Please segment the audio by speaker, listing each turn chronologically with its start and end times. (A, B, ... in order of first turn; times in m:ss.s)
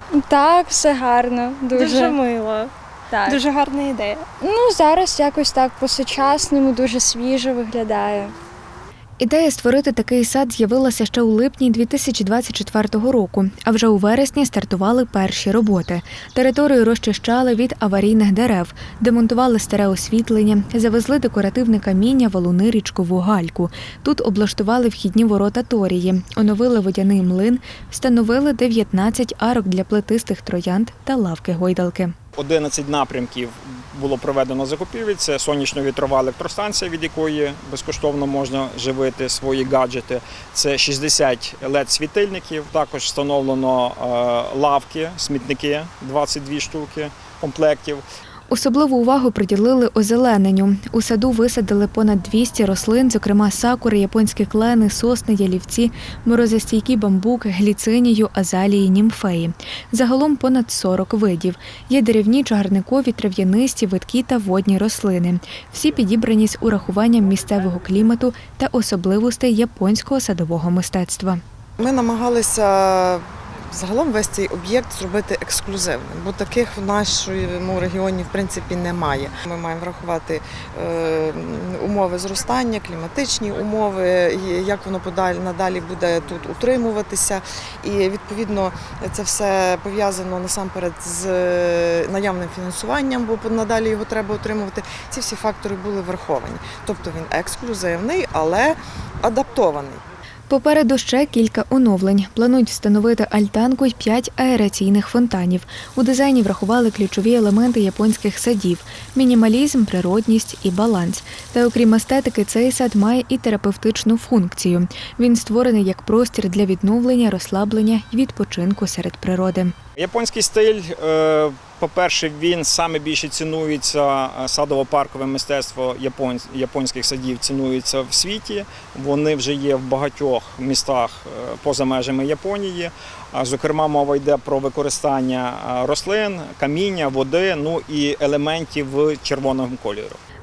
0:00.2-0:02.2 A
0:01.7-0:02.7 B
0:03.1-0:03.4 A
0:03.2-0:04.3 B
0:04.3-0:08.4 A
0:09.2-0:32.2 C
0:32.4-0:48.0 D
0:48.5-1:11.4 C
1:11.8-1:40.0 E
1:40.5-1:59.7 C
2:00.0-2:20.2 D